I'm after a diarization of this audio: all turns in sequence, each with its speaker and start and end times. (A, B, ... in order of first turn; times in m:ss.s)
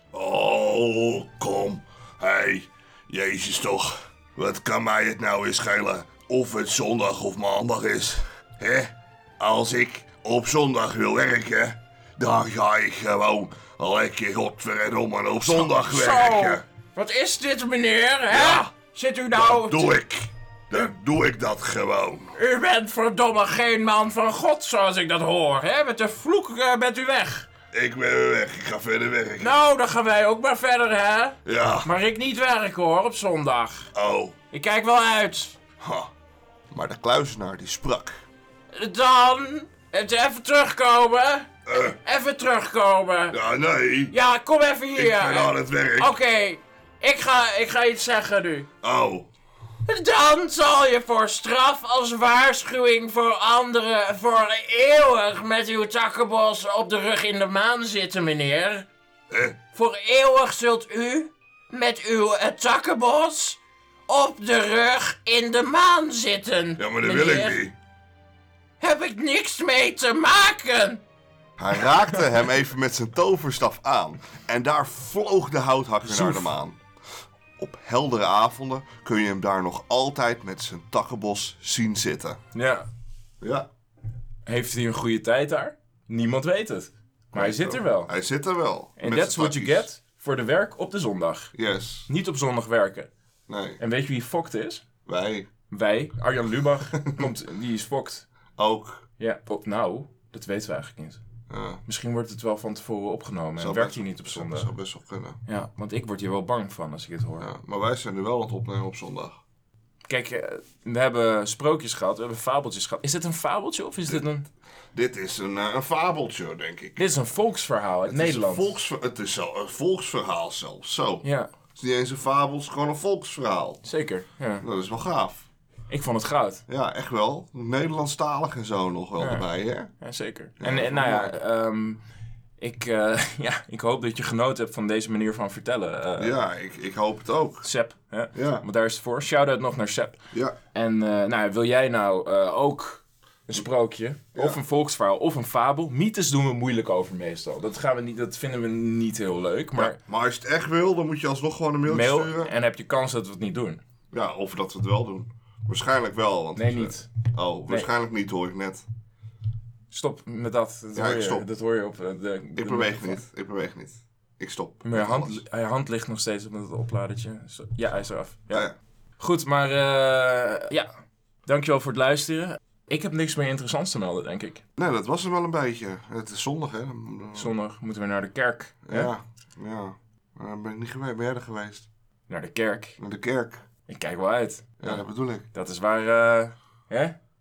0:00.1-0:16.6 A
0:15.4-0:20.0 B
0:18.3-0:18.7 A
0:19.3-0:22.3 A
0:22.3-0:27.5 B
0:27.7-0:29.6 A
0:29.4-0:33.9 B
0:31.4-0:31.9 A
0:33.9-0:34.3 A
0:34.5-0:35.6 B
0:35.8-0:36.1 A
0:36.7-0:38.1 A
0:38.7-0:43.4 B
0:41.7-0:42.0 A
0:43.3-0:44.1 A
0:44.1-0:48.7 B
0:45.0-0:46.1 A
0:48.8-0:49.3 A
0:49.8-0:58.9 B
0:59.3-0:59.6 A
0:59.7-1:07.6 B
1:06.8-1:07.7 A
1:08.8-1:11.0 B
1:11.6-1:16.8 A
1:11.7-1:12.5 B
1:16.0-1:16.5 B
1:17.6-1:22.4 A
1:22.5-1:22.9 B
1:23.4-1:23.7 A
1:24.4-1:28.1 B
1:27.3-1:29.9 A
1:29.0-1:31.5 B
1:31.5-1:32.1 A
1:32.1-1:33.1 B
1:33.5-1:33.8 A
1:33.8-1:34.8 B
1:35.0-1:35.5 A
1:35.7-1:38.2 B
1:38.6-1:39.0 A
1:39.2-1:41.2 B
1:41.5-1:41.8 A
1:41.8-1:44.7 B
1:43.6-1:45.4 A
1:45.5-1:47.5 B
1:47.4-1:49.4 A
1:50.1-1:54.5 B
1:54.9-1:57.0 A
1:57.0-1:58.8 B
1:58.1-2:03.8 A
2:01.2-2:01.5 B
2:03.8-2:04.6 B
2:04.6-2:05.4 A
2:05.9-2:06.6 B
2:06.7-2:09.9 A
2:09.2-2:09.5 B
2:10.0-2:12.0 B
2:10.6-2:11.4 A
2:12.6-2:16.4 B
2:16.2-2:17.7 A
2:17.6-2:20.2 B
2:18.3-2:18.6 A
2:20.7-2:30.0 B
2:24.3-2:24.6 A
2:29.8-2:32.5 A
2:31.8-2:33.8 B
2:34.1-2:38.8 A
2:36.6-2:37.1 B
2:39.9-2:43.2 B
2:40.9-2:41.5 A
2:42.6-2:45.4 A
2:44.8-2:48.7 B
2:49.2-2:50.9 B
2:51.4-2:54.6 B
2:54.8-2:57.5 A
2:57.3-2:59.1 B
2:58.8-3:01.9 A
3:02.3-3:03.0 B
3:03.0-3:03.6 A
3:03.9-3:07.2 B
3:04.8-3:05.4 A